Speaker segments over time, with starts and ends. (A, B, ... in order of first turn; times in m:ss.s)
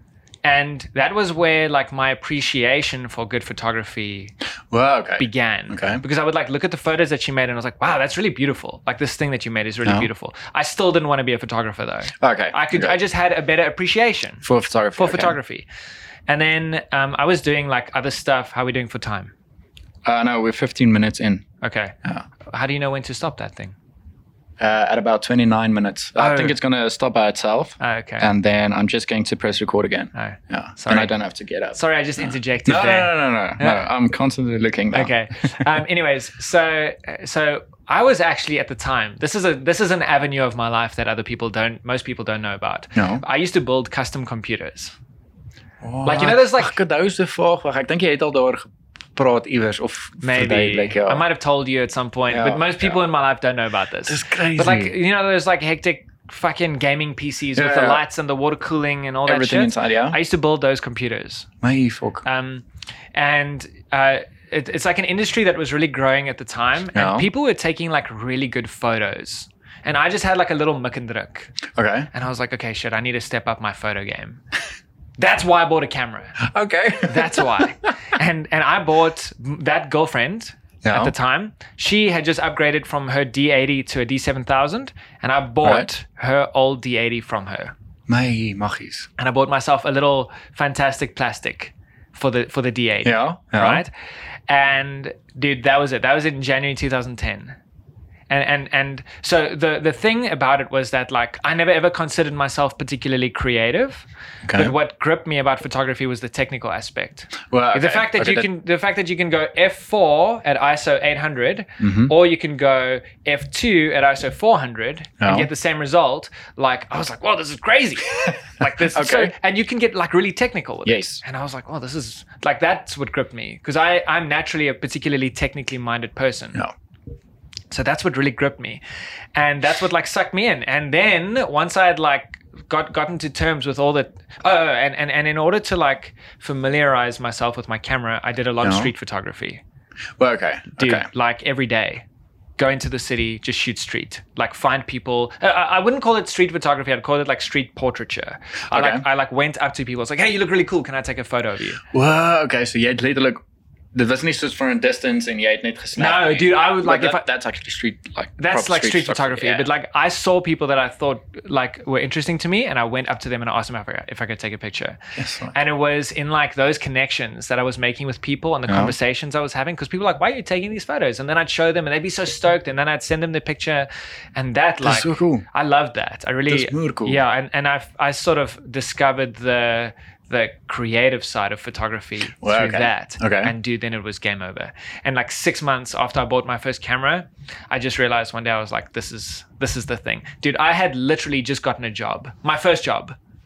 0:00.4-0:04.3 A
0:04.7-0:06.0 B
0:05.2-0:14.4 A
0:12.2-0:13.0 B
0:14.4-0:15.4 B
0:15.0-0:15.6 A
0:16.3-0:19.3 A
0:20.0-0:21.4 B
0:21.6-0:21.9 A
0:22.4-0:23.7 A
0:24.6-0:35.5 B
0:26.2-0:26.6 A
0:27.8-0:28.3 A
0:30.1-0:31.1 A
0:31.7-0:33.8 A
0:34.9-0:45.0 A
0:43.0-0:43.2 B
0:45.8-0:51.2 B
0:46.0-0:46.8 A
0:50.2-1:01.5 A
0:52.3-0:53.0 B
0:54.1-0:54.9 B
0:57.5-0:58.0 B
0:59.2-1:00.2 B
1:01.6-1:02.2 B
1:02.2-1:11.5 A
1:06.9-1:07.3 B
1:11.7-1:12.1 B
1:12.1-1:14.4 A
1:15.2-1:16.4 A
1:16.4-1:17.6 B
1:17.0-1:27.7 A
1:20.8-1:21.1 B
1:25.6-1:25.9 B
1:28.1-1:29.1 B
1:29.2-1:33.9 A
1:33.0-1:33.8 B
1:34.5-1:37.6 A
1:38.3-2:06.6 A
1:44.4-1:44.7 B
1:47.5-1:48.5 B
1:51.8-1:52.1 B
1:55.2-1:55.5 B
1:58.9-1:59.3 B
2:00.8-2:01.2 B
2:07.7-2:08.8 A
2:09.3-2:19.6 A
2:18.6-2:18.9 B
2:20.2-2:21.0 B
2:20.8-2:22.0 A
2:22.6-2:31.8 A
2:28.7-2:29.0 B
2:31.9-2:33.4 B
2:33.9-2:39.7 B
2:36.0-2:37.2 A
2:38.4-2:45.0 A
2:45.2-2:45.5 B
2:45.5-3:13.2 A
2:48.7-2:48.9 B
2:54.8-2:55.4 B
2:56.5-2:57.2 B
3:02.4-3:03.5 B